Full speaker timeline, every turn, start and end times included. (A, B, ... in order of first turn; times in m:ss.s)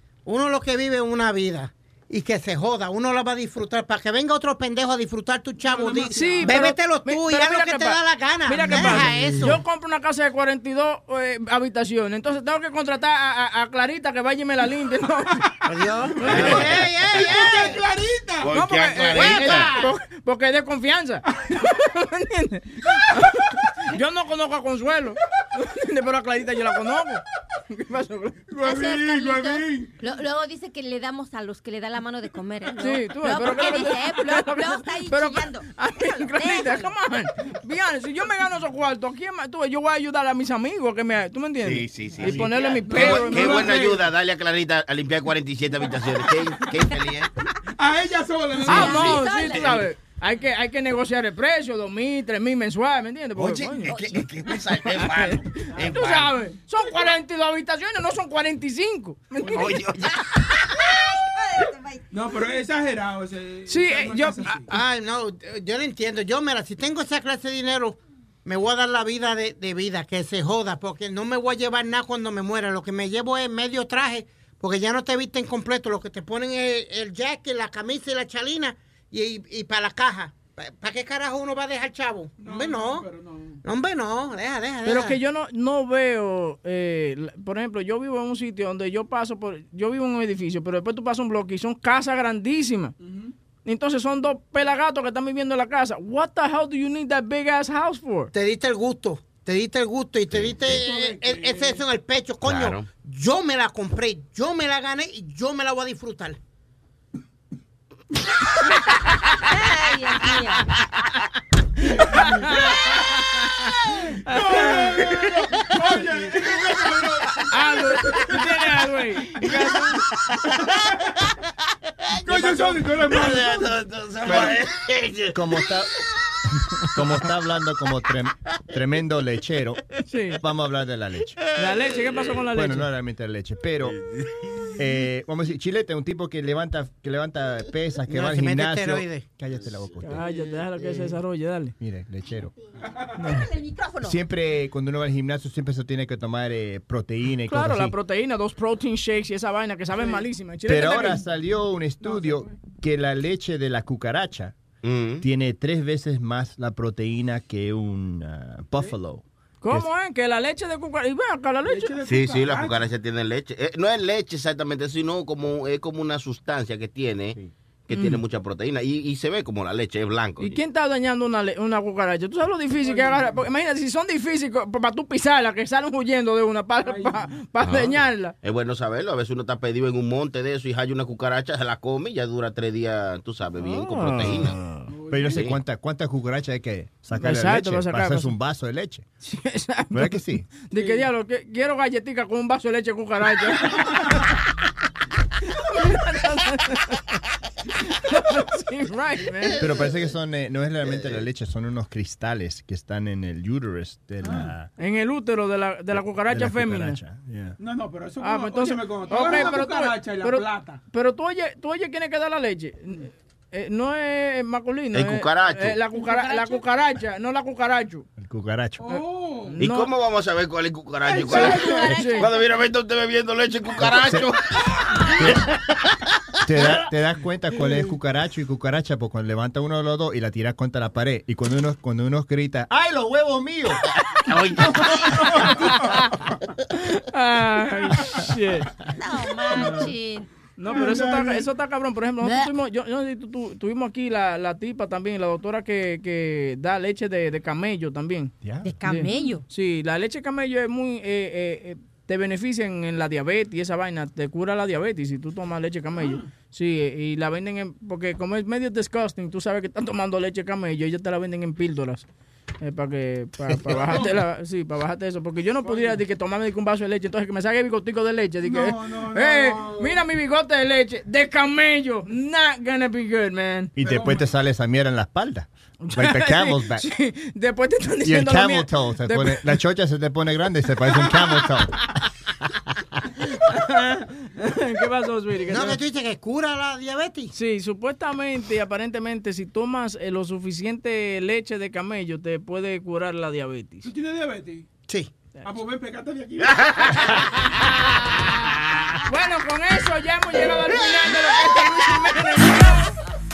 0:00.2-0:09.6 A
0:05.6-0:06.5 B
0:06.1-0:15.4 C
0:15.7-0:17.8 A
0:16.2-0:17.8 D
0:16.3-0:16.6 B
0:16.3-0:16.6 C
0:17.2-0:18.6 B
0:18.4-0:19.8 D
0:18.5-0:28.5 C
0:19.2-0:19.6 A
0:28.5-0:29.9 B
0:28.6-0:36.9 E
0:32.8-0:43.7 C
0:41.6-0:47.3 D
0:42.3-0:44.0 B
0:47.8-0:49.3 B
0:48.6-0:49.8 E
0:48.6-0:54.2 C
0:53.4-0:56.4 D
0:54.8-0:59.9 C
0:59.5-1:00.6 D
1:02.1-1:04.7 B
1:03.7-1:04.6 C
1:04.7-1:23.1 A
1:22.4-1:23.6 B
1:23.6-1:25.2 A
1:24.8-1:32.9 C
1:33.0-1:33.3 B
1:33.6-1:38.3 C
1:38.3-1:46.4 A
1:40.6-1:41.8 B
1:42.4-1:42.9 D
1:49.4-1:50.8 E
1:51.9-1:55.3 C
1:52.1-1:53.2 B
1:54.3-1:58.6 B
1:57.5-2:00.0 C
2:02.2-2:05.3 D
2:02.2-2:03.7 B
2:04.3-2:04.5 B
2:05.3-2:05.9 F
2:06.9-2:09.8 F
2:10.1-2:10.4 C
2:10.4-2:11.4 F
2:11.6-2:12.9 C
2:12.5-2:14.0 F
2:14.8-2:20.3 F
2:18.1-2:19.2 A
2:20.0-2:21.7 C
2:21.8-2:22.5 F
2:23.2-2:23.5 C
2:23.2-2:24.2 E
2:24.0-2:27.9 F
2:27.5-2:31.2 C
2:30.6-2:34.6 F
2:32.0-2:32.5 B
2:34.8-2:35.2 D
2:35.2-2:39.9 F
2:39.6-2:42.0 C
2:41.6-2:42.8 B
2:42.0-2:50.6 D
2:47.9-2:48.2 C
2:50.4-2:58.3 C
2:52.8-2:53.4 B
2:56.8-2:57.3 B
2:57.6-3:04.6 D
3:03.6-3:04.5 C
3:04.9-3:05.5 B
3:05.1-3:09.0 F
3:05.3-3:05.6 D
3:07.2-3:08.3 C
3:09.2-3:14.2 C
3:09.9-3:10.5 F
3:10.7-3:11.0 B
3:15.5-3:17.2 C
3:17.8-3:19.6 C
3:19.6-3:24.7 F
3:24.2-3:24.5 B
3:24.8-3:27.0 C
3:25.9-3:27.6 F
3:27.6-3:30.8 B
3:28.2-3:38.0 C
3:29.2-3:29.6 E
3:34.9-3:35.8 D
3:35.9-3:36.6 E
3:38.2-3:38.9 F
3:38.8-3:39.6 B
3:39.6-3:39.9 C
3:39.6-3:45.4 D
3:41.1-3:42.3 E
3:41.2-3:41.6 B
3:41.2-3:42.3 C
3:43.8-3:44.3 F
3:46.4-3:53.8 F
3:54.3-3:55.3 D
3:54.9-3:55.5 B
3:55.5-3:56.1 C
3:56.9-3:58.7 C
3:59.0-4:00.3 E
3:59.5-3:59.9 B
3:59.6-3:59.9 C
4:00.6-4:08.3 C
4:00.6-4:01.4 B
4:02.2-4:02.5 E
4:08.4-4:08.7 F
4:08.6-4:09.4 E
4:08.8-4:22.0 C
4:15.9-4:16.3 B
4:22.6-4:33.7 C
4:23.6-4:24.2 B
4:25.6-4:26.0 B
4:28.4-4:30.0 B
4:33.8-4:36.8 F
4:33.8-4:34.3 B
4:35.8-4:39.4 C
4:38.0-4:41.9 F
4:43.5-4:45.8 C
4:45.5-4:47.3 A
4:47.3-4:53.9 C
4:53.8-4:54.6 B
4:55.4-4:57.2 B
4:59.0-5:02.9 C